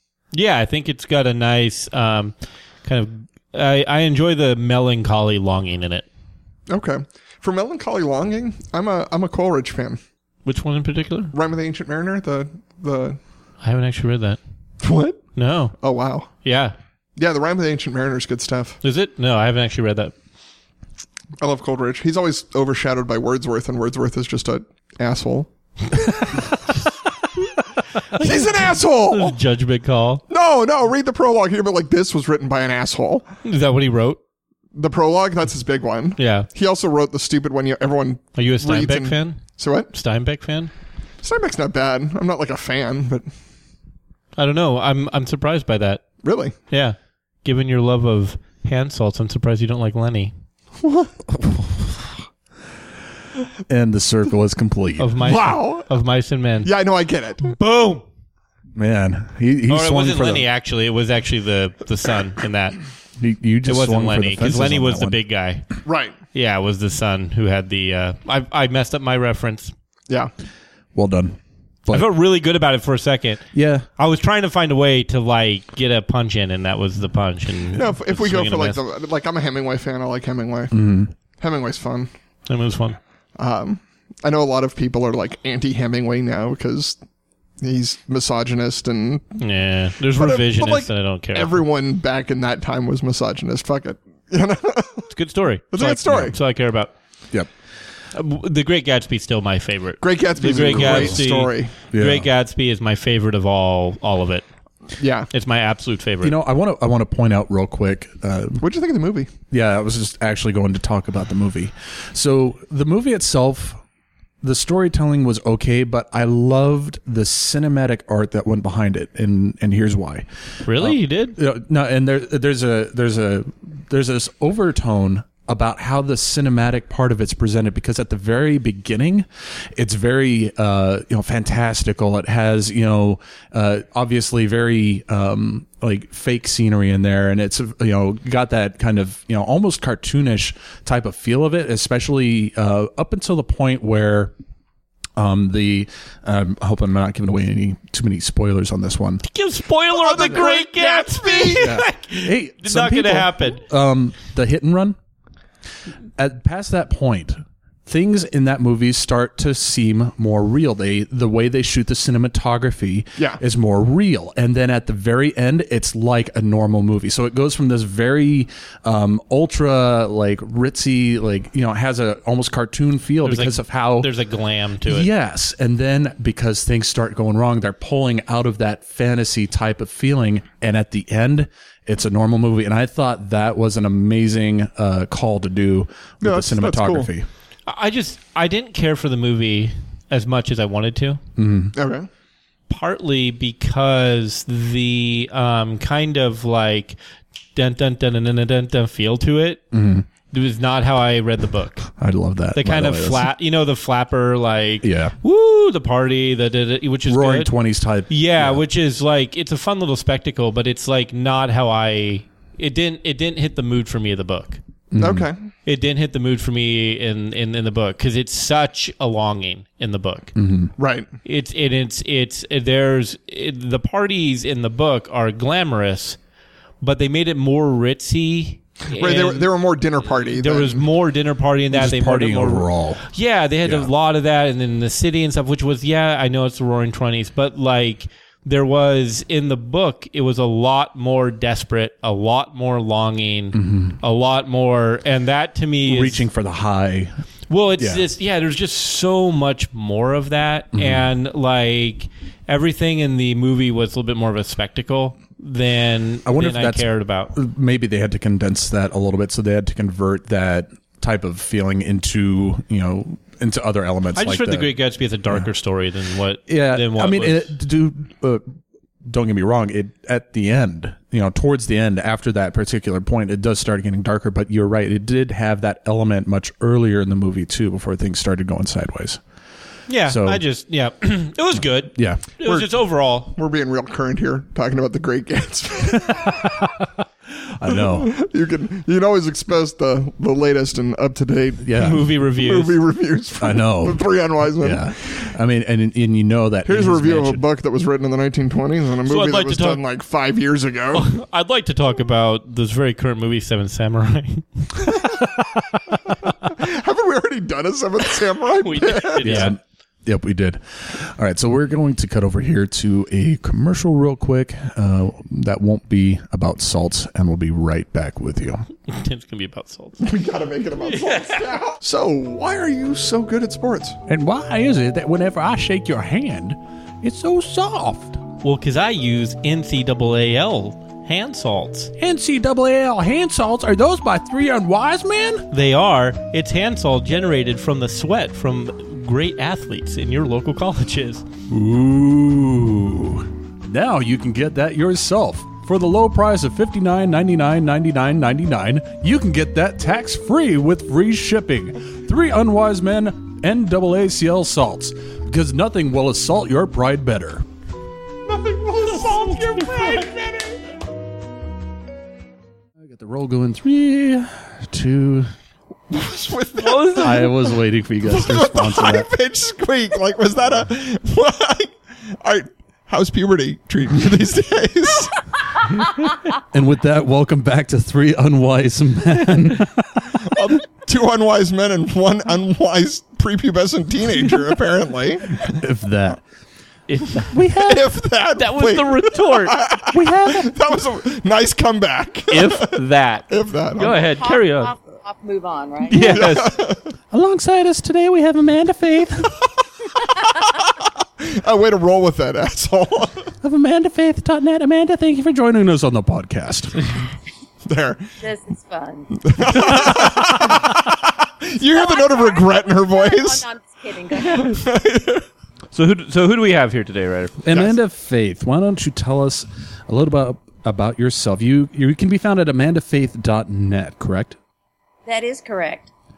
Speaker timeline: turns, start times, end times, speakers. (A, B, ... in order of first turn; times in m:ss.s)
0:00.3-0:06.1 A
0:06.7-0:10.0 B
0:10.4-0:11.3 A
0:11.3-0:13.2 B
0:13.6-0:14.4 A
0:14.8-0:15.3 B
0:15.4-0:15.8 A
0:15.8-0:16.3 B
0:16.4-0:16.8 A
0:17.2-0:18.8 B
0:18.8-0:20.1 A
0:21.4-0:26.1 B
0:28.1-0:30.2 A
0:28.1-0:29.4 B
0:30.3-0:33.3 B
0:33.4-0:34.2 A
0:34.7-0:39.9 B
0:36.2-0:36.5 A
0:38.4-0:40.7 A
0:41.2-0:43.3 B
0:44.4-0:46.0 A
0:46.2-0:46.5 B
0:46.7-0:50.3 A
0:50.8-0:51.4 B
0:53.7-0:55.1 C
0:55.0-0:56.7 A
0:55.2-0:55.9 B
0:56.6-0:57.6 B
0:57.5-0:58.0 A
0:58.8-1:00.5 C
0:59.7-1:02.8 A
1:03.2-1:05.2 C
1:03.7-1:05.6 A
1:05.8-1:06.2 B
1:06.3-1:09.7 A
1:11.0-1:12.1 C
1:11.9-1:18.8 A
1:13.5-1:13.9 C
1:17.7-1:22.1 B
1:20.7-1:21.1 C
1:22.5-1:23.0 A
1:23.4-1:27.0 B
1:27.6-1:29.4 B
1:29.4-1:31.6 A
1:30.1-1:35.1 B
1:35.1-1:36.9 A
1:35.7-1:36.4 B
1:38.1-1:44.4 A
1:40.0-1:41.7 B
1:40.4-1:41.2 C
1:41.9-1:42.3 C
1:45.0-1:45.3 B
1:45.3-1:46.4 A
1:46.2-1:48.6 C
1:48.6-1:49.3 B
1:49.5-1:53.8 C
1:54.4-2:24.3 C
2:00.6-2:01.4 A
2:25.2-2:29.2 C
2:29.2-2:33.6 A
2:29.9-2:31.8 B
2:31.6-2:35.0 C
2:36.2-2:54.1 C
2:53.2-2:55.1 A
2:54.9-3:07.3 C
3:06.2-3:07.1 B
3:07.7-3:11.2 A
3:11.4-3:11.8 C
3:11.8-3:12.1 B
3:12.7-3:17.0 A
3:17.6-3:19.6 A
3:19.7-3:20.1 C
3:20.3-3:21.9 A
3:22.0-3:23.3 C
3:22.6-3:27.5 A
3:24.8-3:25.2 C
3:27.1-3:28.6 C
3:28.1-3:34.6 A
3:34.9-3:35.3 C
3:35.0-3:35.4 B
3:35.7-3:40.3 A
3:40.4-3:40.7 C
3:40.8-3:41.1 B
3:41.2-3:46.2 A
3:46.8-3:49.5 A
3:49.0-3:50.8 B
3:50.2-4:06.2 A
3:51.7-3:53.0 C
3:53.6-3:53.9 C
4:03.5-4:04.0 C
4:05.9-4:07.2 C
4:07.5-4:17.3 A
4:07.8-4:08.1 C
4:10.7-4:11.1 C
4:16.2-4:24.7 C
4:24.2-4:27.5 A
4:26.5-4:28.6 C
4:29.1-4:39.2 C
4:39.9-4:43.3 A
4:40.0-4:40.4 C
4:41.9-4:42.2 C
4:42.4-4:46.7 B
4:46.5-4:48.1 C
4:47.7-4:55.1 B
4:51.6-4:52.1 C
4:51.8-4:52.8 A
4:53.4-4:57.4 C
4:56.7-5:01.1 B
4:59.0-4:59.8 A
5:00.9-5:05.0 A
5:04.9-5:05.2 B
5:06.4-5:09.5 B
5:08.6-5:09.6 A
5:09.2-5:18.6 C
5:18.9-5:20.1 A
5:20.0-5:24.0 B
5:20.8-5:21.5 A
5:24.1-5:28.2 C
5:28.4-5:31.9 A
5:32.0-5:35.5 C
5:35.5-5:41.2 A
5:41.5-5:57.5 C
5:58.2-6:00.6 B
6:02.8-6:05.3 C
6:05.9-6:07.3 B
6:06.6-6:07.5 A
6:07.0-6:09.1 C
6:08.0-6:15.2 B
6:16.5-6:20.1 C
6:20.2-6:25.6 B
6:25.4-6:26.2 C
6:26.9-6:27.4 A
6:27.3-6:27.8 C
6:27.6-6:34.0 B
6:28.4-6:29.6 A
6:29.9-6:30.5 C
6:32.3-6:34.7 A
6:33.9-6:36.3 D
6:35.8-6:36.6 A
6:36.0-6:36.9 B
6:37.1-6:39.4 C
6:40.8-6:43.3 B
6:43.4-6:46.8 C
6:47.6-6:48.1 B
6:48.2-6:49.9 D
6:49.2-6:53.4 B
6:51.6-6:54.6 D
6:54.2-6:55.3 B
6:55.7-6:57.7 A
6:57.4-7:04.4 C
7:05.1-7:05.9 D